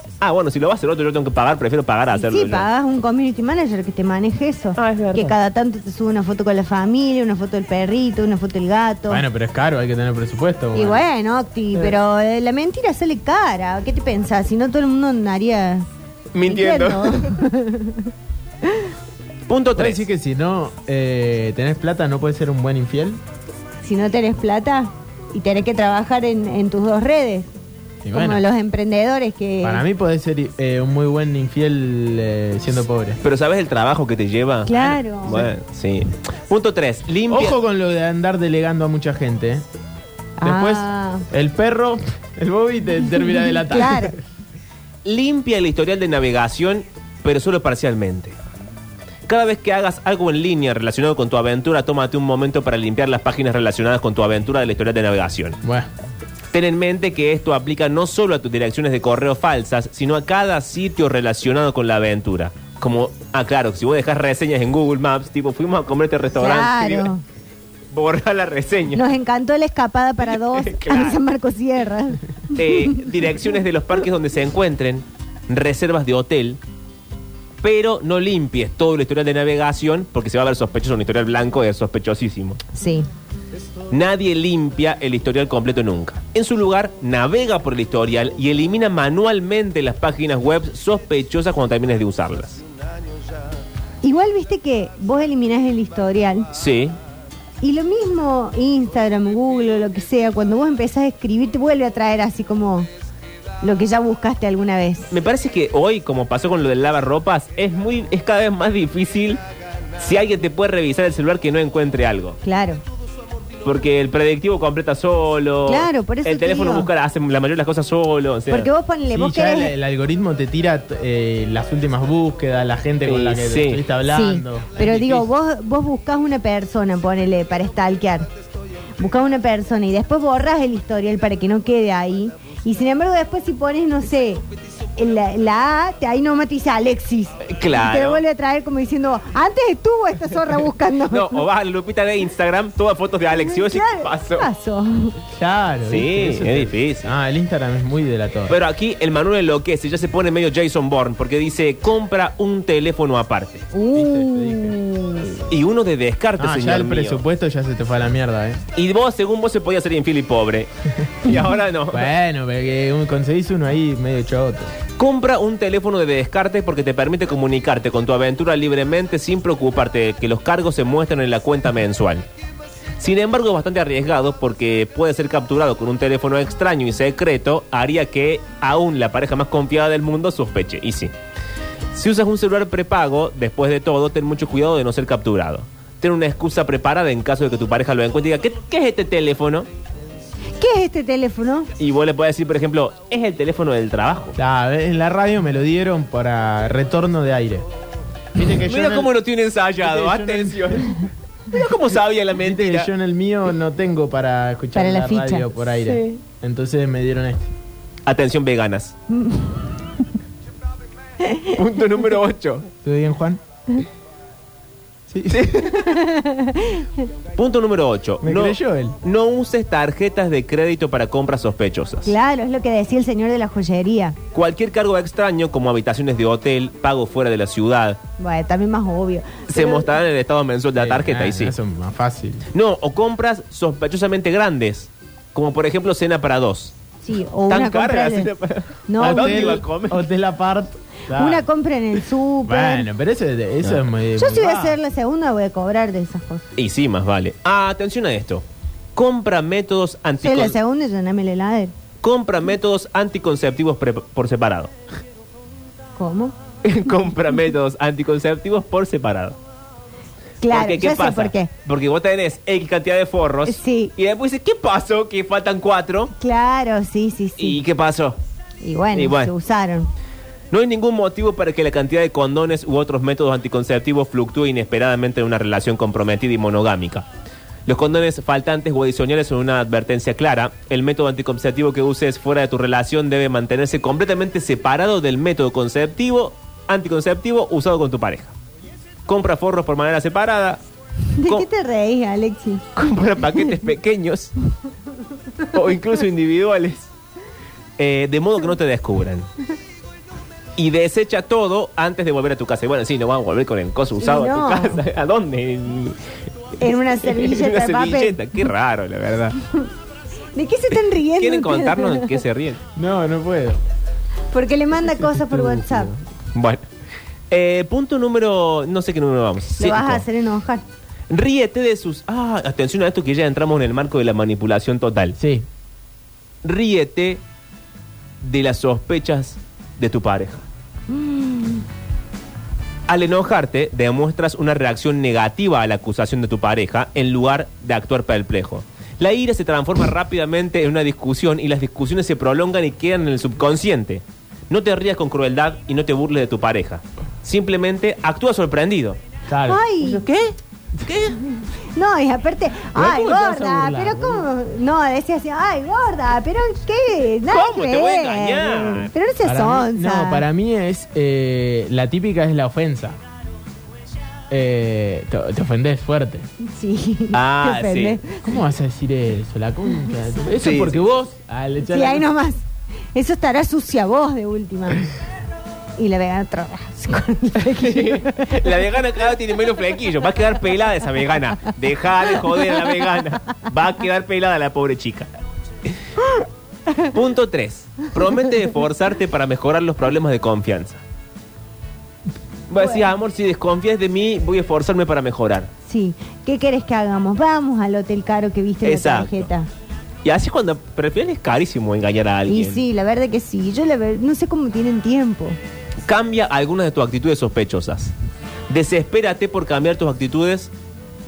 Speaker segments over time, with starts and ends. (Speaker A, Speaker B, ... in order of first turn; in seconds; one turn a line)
Speaker A: 0.2-2.7
Speaker B: 2.1-9.2
Speaker A: 4.8-5.3
Speaker C: 9.1-11.0
Speaker B: 10.7-15.9
Speaker A: 16.3-17.3
Speaker B: 16.5-18.1
Speaker A: 19.5-20.0
Speaker C: 19.8-23.2
Speaker B: 23.8-27.5
Speaker C: 28.0-28.4
Speaker B: 28.1-29.8
Speaker C: 29.6-33.2
Speaker A: 33.2-37.6
Speaker B: 34.7-35.5
Speaker C: 37.3-39.6
Speaker B: 40.4-41.2
Speaker C: 40.4-44.2
Speaker B: 43.7-44.1
Speaker A: 45.0-48.3
Speaker A: 49.3-55.6
Speaker C: 55.6-55.9
Speaker A: 56.5-67.1
Speaker B: 66.4-67.2
Speaker A: 67.9-69.0
Speaker B: 68.9-73.0
Speaker A: 70.2-71.2
Speaker A: 72.5-76.6
Speaker A: 77.6-82.6
Speaker B: 82.8-83.1
Speaker A: 83.9-92.6
Speaker B: 94.0-96.5
Speaker A: 96.5-97.0
Speaker B: 97.6-102.9
Speaker B: 103.6-105.1
Speaker A: 105.1-109.4
Speaker A: 110.0-112.4
Speaker B: 112.4-112.8
Speaker A: 113.7-118.7
Speaker B: 115.7-116.9
Speaker B: 118.5-119.7
Speaker C: 119.1-125.0
Speaker A: 123.0-123.8
Speaker B: 124.1-128.3
Speaker A: 124.9-125.2
Speaker B: 129.0-134.4
Speaker B: 135.0-141.4
Speaker A: 137.5-138.2
Speaker A: 141.1-144.5
Speaker B: 143.4-145.2
Speaker C: 145.3-148.5
Speaker A: 145.9-147.1
Speaker A: 148.5-153.7
Speaker B: 153.7-155.4
Speaker C: 153.9-154.8
Speaker A: 155.5-157.2
Speaker C: 156.4-158.6
Speaker A: 158.8-160.7
Speaker A: 161.2-162.1
Speaker C: 161.9-164.7
Speaker A: 165.0-172.3
Speaker A: 173.0-181.1
Speaker A: 181.9-189.7
Speaker B: 190.6-191.7
Speaker A: 191.8-194.4
Speaker C: 194.4-197.7
Speaker C: 198.4-199.1
Speaker A: 198.7-200.9
Speaker C: 199.8-200.9
Speaker A: 201.5-202.9
Speaker C: 202.4-207.5
Speaker B: 204.8-206.2
Speaker A: 208.1-209.0
Speaker B: 209.1-209.6
Speaker A: 211.5-212.7
Speaker C: 212.8-213.4
Speaker C: 215.1-215.5
Speaker A: 215.3-215.9
Speaker B: 215.9-216.9
Speaker A: 217.4-222.2
Speaker C: 218.2-219.0
Speaker B: 222.1-224.2
Speaker A: 224.3-228.0
Speaker B: 228.2-229.9
Speaker A: 229.5-231.5
Speaker C: 230.8-232.4
Speaker A: 232.5-236.7
Speaker B: 237.0-238.3
Speaker A: 237.5-240.1
Speaker B: 238.9-239.6
Speaker C: 239.0-241.4
Speaker B: 241.2-242.9
Speaker C: 242.5-244.8
Speaker B: 244.2-246.5
Speaker A: 246.6-248.4
Speaker A: 249.0-250.6
Speaker B: 250.2-251.7
Speaker A: 252.0-254.7
Speaker B: 256.0-256.4
Speaker A: 256.6-259.4
Speaker B: 260.4-261.5
Speaker A: 260.5-266.1
Speaker B: 263.5-263.9
Speaker B: 266.2-267.6
Speaker A: 267.4-268.2
Speaker B: 268.6-269.9
Speaker A: 268.9-269.3
Speaker A: 270.5-277.1
Speaker A: 277.7-288.3
Speaker A: 289.1-290.6
Speaker B: 291.2-292.6
Speaker A: 292.8-294.3
Speaker A: 295.5-296.9
Speaker A: 297.8-299.3
Speaker A: 300.6-306.0
Speaker B: 304.0-304.8
Speaker B: 306.6-308.2
Speaker A: 307.0-309.4
Speaker B: 310.4-312.1
Speaker A: 310.7-312.6
Speaker C: 312.8-313.6
Speaker B: 314.3-315.9
Speaker C: 314.9-316.0
Speaker A: 316.3-316.6
Speaker A: 317.3-320.1
Speaker B: 319.6-320.6
Speaker A: 321.1-325.2
Speaker C: 325.2-325.4
Speaker A: 326.4-327.2
Speaker A: 328.2-330.4
Speaker B: 330.9-331.6
Speaker A: 332.9-349.0
Speaker C: 349.3-349.6
Speaker B: 349.5-350.0
Speaker A: 349.8-351.2
Speaker B: 351.8-360.2
Speaker C: 352.7-354.3
Speaker A: 357.3-358.9
Speaker C: 359.2-363.0
Speaker C: 364.3-366.3
Speaker B: 366.4-368.2
Speaker A: 367.1-368.0
Speaker C: 368.2-372.1
Speaker A: 370.4-370.8
Speaker B: 371.6-374.9
Speaker B: 375.8-378.4
Speaker A: 377.5-385.1
Speaker A: 386.9-390.8
Speaker A: 392.5-395.5
Speaker B: 392.6-392.9
Speaker B: 395.7-399.5
Speaker A: 398.6-399.3
Speaker A: 400.1-402.6
Speaker B: 402.3-405.4
Speaker A: 405.9-407.9
Speaker A: 408.5-410.5